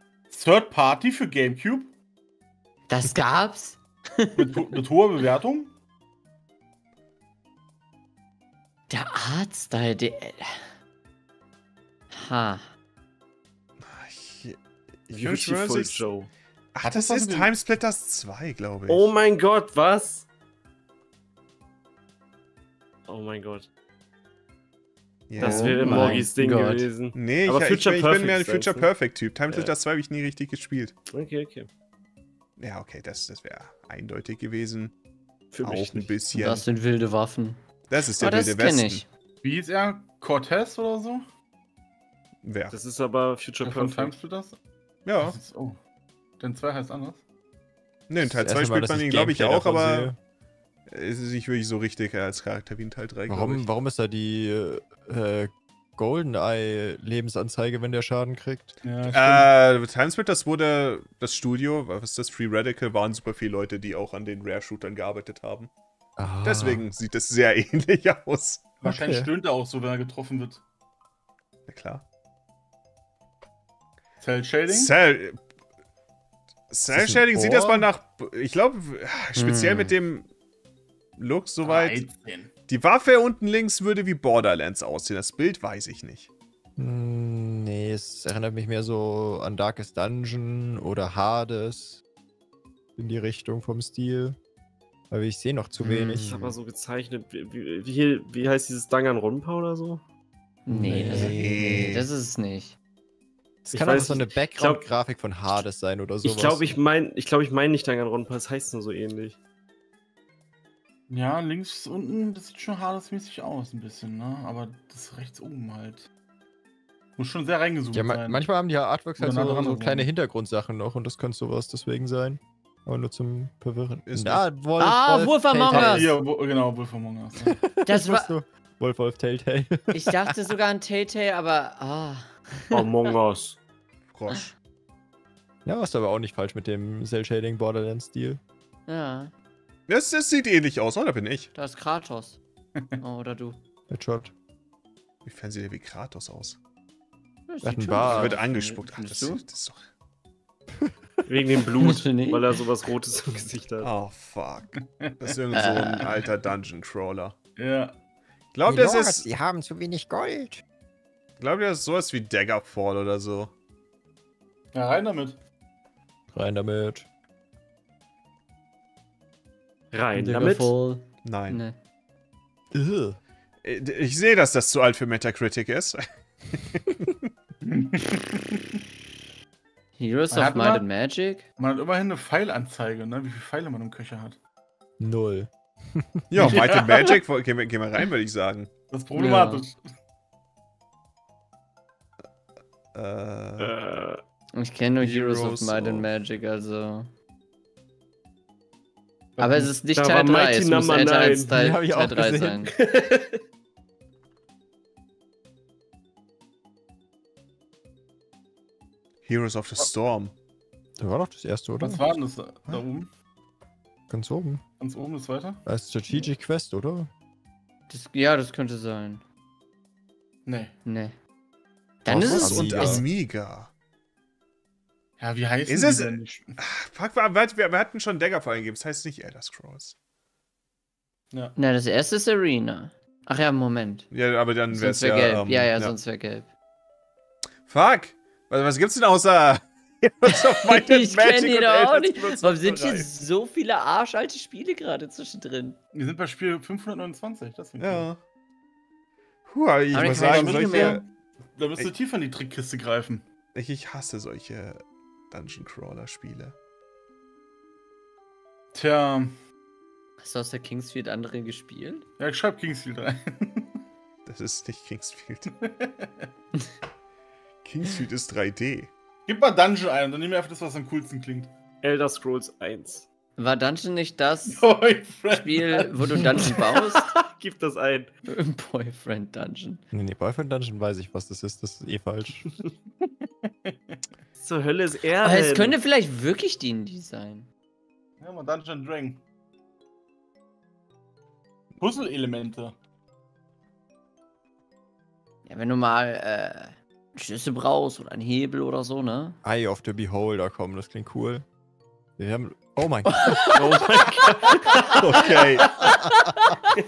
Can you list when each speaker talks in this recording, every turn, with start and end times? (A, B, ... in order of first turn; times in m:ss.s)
0:00.3-0:01.9 A
0:02.9-0:04.8 B
0:04.4-0:05.7 A
0:08.9-0:10.7 B
0:12.1-0:12.7 B
0:13.8-0:16.0 C
0:15.1-0:16.3 D
0:16.7-0:19.1 C
0:16.8-0:17.5 A
0:18.9-0:20.3 D
0:23.1-0:23.7 D
0:25.3-0:26.2 C
0:25.4-0:28.9 D
0:25.4-0:26.9 B
0:25.9-0:26.1 A
0:27.1-0:30.9 C
0:29.5-0:29.7 D
0:31.1-0:31.7 D
0:32.6-0:34.9 C
0:35.5-0:36.1 D
0:35.6-0:36.6 C
0:36.3-0:37.6 B
0:37.9-0:39.0 C
0:38.2-0:39.0 B
0:39.4-0:41.2 A
0:42.4-0:42.8 C
0:42.7-0:44.2 D
0:43.6-0:44.6 A
0:45.0-0:45.4 C
0:45.2-0:45.8 A
0:46.4-0:47.2 A
0:48.1-0:50.1 C
0:48.2-0:50.2 E
0:50.9-0:53.6 C
0:53.3-0:58.8 E
0:58.8-0:59.5 A
0:59.1-1:05.7 C
1:06.2-1:06.8 E
1:06.4-1:08.7 C
1:08.8-1:10.6 A
1:08.8-1:09.3 E
1:11.7-1:12.0 C
1:14.2-1:14.9 A
1:14.7-1:15.4 C
1:16.7-1:20.3 C
1:16.9-1:17.9 E
1:19.4-1:19.9 B
1:21.2-1:22.1 C
1:21.6-1:22.5 A
1:22.7-1:26.3 C
1:26.8-1:32.0 E
1:33.0-1:34.4 E
1:35.1-1:36.6 E
1:35.8-1:36.2 B
1:36.2-1:40.0 D
1:40.6-1:42.8 B
1:40.7-1:41.9 E
1:41.1-1:42.1 C
1:43.6-1:46.8 E
1:43.7-1:44.8 D
1:46.2-1:49.4 D
1:51.1-1:56.1 A
1:57.2-1:58.4 A
1:57.9-2:06.1 E
1:59.2-2:00.1 A
2:04.1-2:04.4 C
2:04.8-2:06.1 B
2:05.7-2:07.6 A
2:07.4-2:10.3 E
2:07.8-2:08.3 B
2:09.9-2:12.9 B
2:12.7-2:13.6 D
2:14.1-2:14.5 C
2:15.6-2:18.4 E
2:18.9-2:19.3 B
2:19.9-2:21.5 C
2:21.5-2:22.4 B
2:23.0-2:23.6 B
2:23.9-2:24.3 E
2:25.2-2:26.6 C
2:27.5-2:29.4 B
2:27.6-2:28.4 E
2:28.0-2:29.8 C
2:31.3-2:33.9 D
2:31.8-2:32.4 B
2:33.8-2:37.4 C
2:34.7-2:35.4 A
2:35.5-2:36.1 B
2:37.6-2:37.9 A
2:38.5-2:39.3 C
2:38.6-2:40.6 E
2:41.4-2:43.5 C
2:44.7-2:45.4 A
2:46.3-2:47.0 E
2:49.9-2:50.7 D
2:50.2-2:51.7 B
2:51.2-2:51.6 C
2:52.7-2:53.2 E
2:53.6-2:57.2 C
2:57.6-2:58.8 A
3:00.0-3:01.4 B
3:00.3-3:00.8 A
3:01.6-3:04.4 A
3:05.0-3:06.6 E
3:06.3-3:08.7 C
3:06.4-3:07.2 A
3:08.9-3:09.8 A
3:09.1-3:09.6 B
3:12.9-3:13.7 C
3:13.6-3:14.2 D
3:14.6-3:17.1 B
3:15.0-3:16.1 C
3:19.4-3:19.7 A
3:19.4-3:22.7 B
3:19.9-3:21.5 D
3:21.5-3:22.7 E
3:22.7-3:23.4 D
3:29.2-3:30.3 C
3:31.0-3:32.0 E
3:31.8-3:33.1 A
3:34.1-3:34.6 E
3:34.8-3:35.6 A
3:35.6-3:37.1 E
3:37.9-3:39.2 B
3:40.4-3:40.7 A
3:40.8-3:41.2 B
3:42.0-3:43.0 B
3:42.1-3:43.1 E
3:42.1-3:43.7 C
3:45.2-3:46.6 A
3:45.7-3:49.9 C
3:51.3-3:51.6 A
3:51.6-3:54.1 B
3:54.1-3:55.9 C
3:54.7-3:56.5 B
3:57.7-4:03.1 C
4:00.3-4:05.8 B
4:05.9-4:08.1 A
4:07.8-4:08.2 C
4:09.5-4:11.0 C
4:09.9-4:11.0 B
4:10.0-4:13.2 A
4:13.5-4:16.5 C
4:18.7-4:19.3 A
4:20.2-4:22.0 B
4:22.2-4:23.8 A
4:24.2-4:25.5 C
4:25.5-4:26.3 A
4:27.6-4:28.9 C
4:29.3-4:31.5 A
4:31.8-4:33.1 D
4:33.4-4:34.6 B
4:34.5-4:36.5 A
4:35.3-4:37.1 B
4:37.0-4:38.1 D
4:38.3-4:39.8 B
4:39.9-4:42.5 E
4:43.0-4:44.0 A
4:44.4-4:45.8 D
4:45.2-4:47.5 B
4:48.2-4:49.2 A
4:51.8-4:52.8 A
4:55.4-4:59.4 B
4:59.4-5:01.4 E
5:02.2-5:03.6 E
5:03.1-5:06.6 B
5:03.5-5:05.3 D
5:04.9-5:06.0 C
5:05.8-5:06.2 E